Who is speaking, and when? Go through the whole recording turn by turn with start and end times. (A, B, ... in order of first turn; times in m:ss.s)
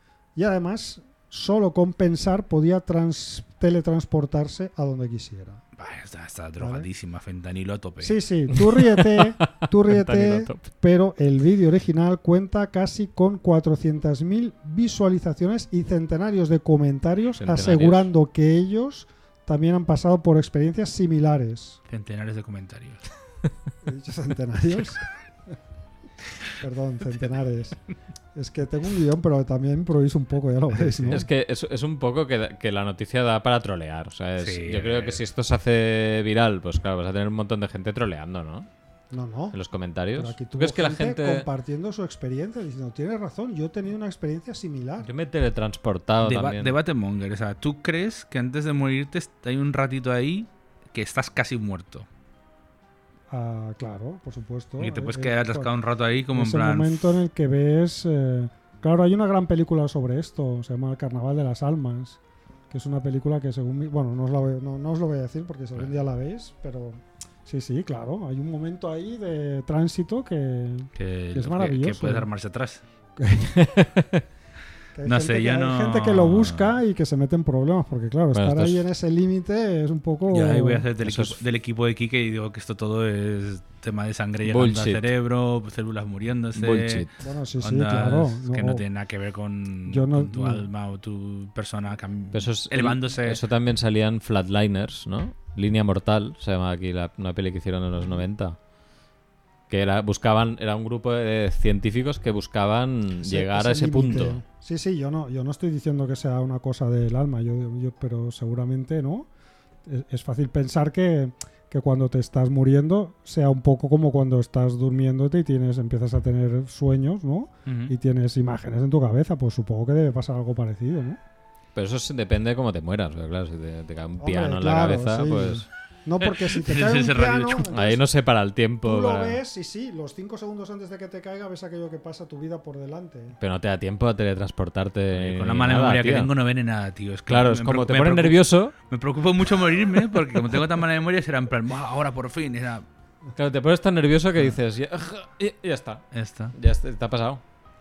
0:00.4-0:05.6 A
0:05.8-0:08.2 B
0:06.6-0:06.9 A
0:08.0-0:21.8 A
0:08.7-0:10.7 C
0:17.4-0:18.1 C
0:21.9-0:23.0 B
0:23.8-0:25.0 A
0:26.6-0:27.8 A
0:28.3-0:31.2 A
0:31.0-0:38.7 C
0:34.4-0:35.2 B
0:39.1-0:39.6 A
0:39.5-0:41.5 C
0:40.1-0:45.1 A
0:45.0-0:46.7 C
0:46.2-0:52.0 B
0:53.3-0:55.7 A
0:54.8-0:57.2 B
0:56.3-1:02.2 A
1:02.7-1:12.3 A
1:10.9-1:12.8 B
1:13.2-1:13.5 A
1:13.5-1:14.2 C
1:14.9-1:20.8 A
1:15.0-1:16.8 B
1:18.3-1:18.8 C
1:20.3-1:33.4 B
1:21.0-1:21.4 C
1:24.4-1:25.0 C
1:26.5-1:27.1 C
1:27.2-1:28.8 A
1:29.9-1:30.6 A
1:32.3-1:38.6 C
1:39.7-1:44.4 C
1:43.2-1:49.3 A
1:49.8-2:01.2 A
1:57.6-1:57.9 B
2:01.7-2:05.7 C
2:04.2-2:08.0 A
2:06.2-2:07.7 B
2:07.7-2:09.4 C
2:08.8-2:13.4 A
2:13.4-2:16.3 C
2:15.1-2:22.8 B
2:17.3-2:18.7 C
2:23.4-2:27.4 C
2:26.1-2:26.5 B